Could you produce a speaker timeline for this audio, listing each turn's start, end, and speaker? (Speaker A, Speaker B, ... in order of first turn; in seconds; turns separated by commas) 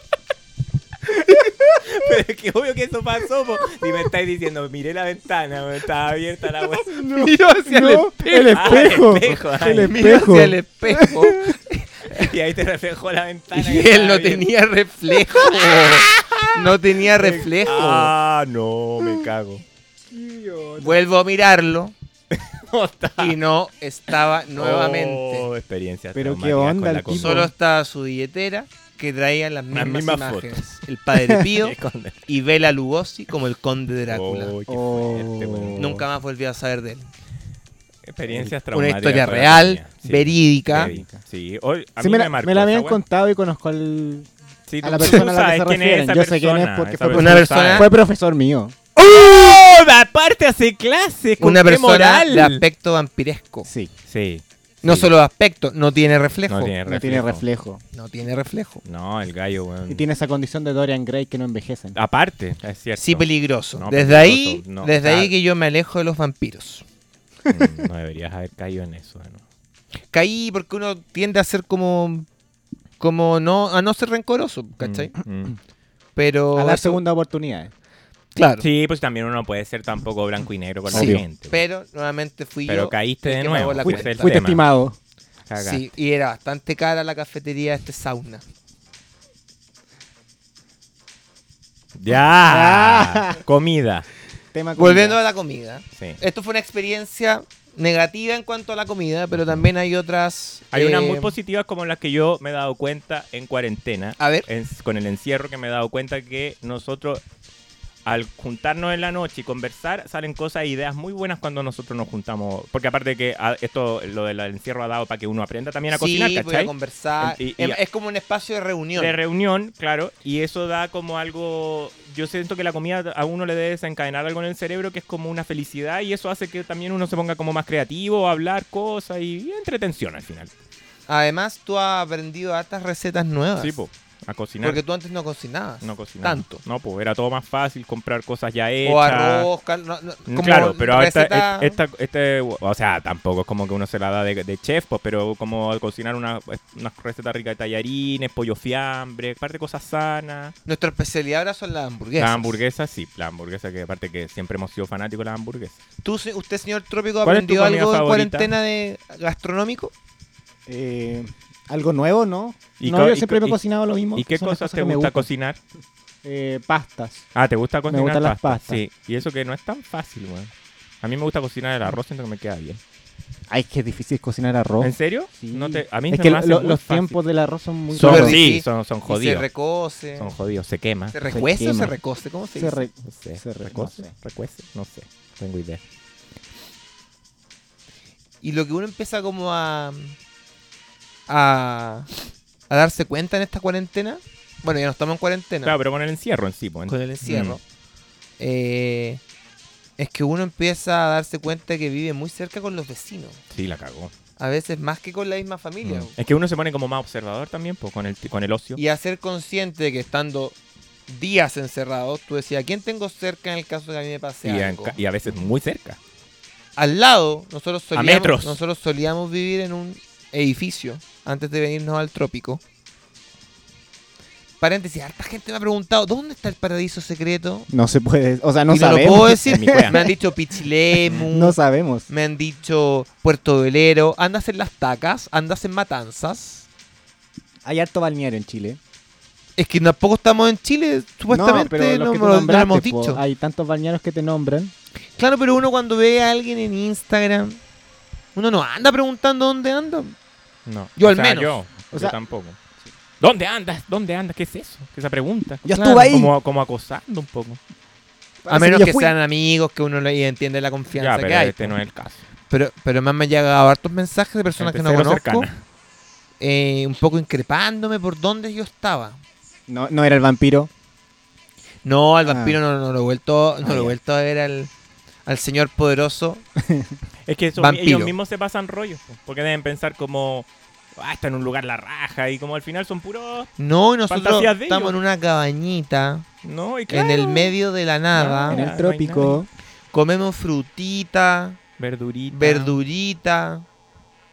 Speaker A: 1.7-7.0, Speaker B: 6.9-11.5, Speaker C: 7.1-8.8, Speaker A: 8.5-10.2, Speaker C: 9.8-12.3, Speaker A: 12.1-14.5, Speaker C: 13.5-18.1, Speaker A: 15.3-16.6, Speaker A: 17.1-19.6, Speaker B: 20.1-20.9, Speaker C: 20.8-21.9, Speaker A: 22.3-23.4, Speaker C: 23.2-25.5, Speaker A: 24.6-27.5, Speaker B: 26.1-27.5, Speaker C: 27.1-31.8, Speaker A: 29.7-30.6, Speaker A: 31.4-32.2, Speaker C: 32.3-34.5, Speaker A: 34.1-35.8, Speaker B: 34.7-36.0, Speaker C: 35.8-37.1, Speaker A: 38.1-43.0, Speaker C: 38.5-40.9, Speaker B: 40.8-41.1, Speaker B: 42.0-44.3, Speaker A: 44.7-47.9, Speaker B: 44.8-48.8, Speaker C: 47.1-47.9, Speaker A: 49.0-52.6, Speaker C: 51.4-53.7, Speaker A: 54.1-55.1, Speaker C: 54.8-56.7, Speaker A: 56.5-57.4, Speaker B: 56.9-57.8, Speaker C: 57.9-58.8, Speaker A: 58.8-60.0, Speaker B: 59.9-62.0, Speaker A: 61.9-65.3, Speaker C: 63.0-66.8, Speaker A: 67.5-69.4, Speaker C: 70.1-72.3, Speaker C: 73.0-75.1, Speaker A: 74.8-75.5, Speaker C: 76.2-77.0, Speaker B: 76.5-77.7, Speaker C: 78.3-78.7, Speaker A: 78.6-81.6, Speaker B: 80.9-81.2, Speaker C: 80.9-84.3, Speaker A: 82.7-84.7, Speaker B: 83.8-85.0, Speaker A: 85.5-85.8, Speaker C: 85.6-88.4, Speaker A: 91.9-94.1, Speaker B: 92.5-93.4, Speaker B: 94.5-95.2, Speaker C: 94.8-101.4, Speaker A: 95.9-96.2, Speaker A: 100.7-107.2, Speaker C: 104.2-104.5, Speaker A: 108.0-117.8, Speaker C: 115.9-119.2, Speaker A: 119.0-130.5, Speaker C: 131.1-133.7, Speaker A: 133.6-134.8, Speaker C: 134.6-136.6, Speaker A: 135.8-139.5, Speaker C: 138.8-141.8, Speaker A: 140.3-150.5, Speaker C: 150.7-152.6, Speaker A: 152.2-155.8, Speaker C: 156.0-159.9, Speaker A: 157.2-158.5, Speaker B: 160.7-165.2, Speaker A: 162.8-163.6, Speaker A: 164.2-165.6, Speaker B: 166.2-167.2, Speaker A: 167.3-170.5, Speaker B: 167.9-168.8, Speaker A: 171.0-172.8, Speaker B: 173.5-178.3, Speaker A: 174.8-177.2, Speaker A: 177.9-179.5, Speaker C: 177.9-180.3, Speaker A: 180.2-181.2, Speaker C: 181.1-182.8, Speaker B: 181.3-181.9, Speaker B: 182.6-184.1, Speaker A: 183.0-185.8, Speaker C: 188.4-190.2, Speaker C: 191.3-192.1, Speaker C: 192.7-195.8, Speaker A: 195.6-197.6, Speaker C: 196.9-197.6, Speaker C: 198.4-199.2, Speaker C: 200.0-203.4, Speaker A: 203.5-204.1, Speaker C: 204.4-206.1, Speaker A: 205.8-208.8, Speaker C: 208.8-210.6, Speaker C: 211.1-215.0, Speaker A: 214.4-216.0, Speaker C: 216.8-222.6, Speaker A: 217.9-218.6, Speaker C: 224.6-227.7, Speaker B: 227.7-230.1, Speaker C: 228.7-236.7, Speaker A: 229.4-230.1, Speaker B: 231.3-232.1, Speaker B: 237.6-238.8, Speaker C: 239.6-243.2, Speaker B: 241.3-244.7, Speaker C: 245.2-247.6, Speaker C: 248.3-250.1, Speaker A: 250.7-252.6, Speaker C: 251.0-251.6, Speaker A: 253.2-257.6, Speaker B: 255.6-256.3, Speaker C: 255.7-256.1, Speaker B: 258.4-259.1, Speaker C: 258.5-261.8, Speaker A: 261.0-262.2, Speaker C: 262.5-265.5, Speaker A: 264.6-265.6, Speaker C: 266.4-269.2, Speaker B: 269.7-270.7, Speaker C: 271.8-274.7, Speaker B: 272.2-272.6, Speaker B: 273.6-273.9, Speaker C: 275.2-276.4, Speaker A: 277.3-283.5, Speaker C: 277.6-278.1, Speaker C: 283.6-286.2, Speaker A: 284.1-284.9, Speaker A: 286.4-287.5, Speaker C: 286.9-288.7, Speaker A: 288.1-289.4, Speaker B: 288.5-289.5, Speaker C: 289.9-291.6, Speaker A: 291.8-292.8, Speaker C: 292.3-293.6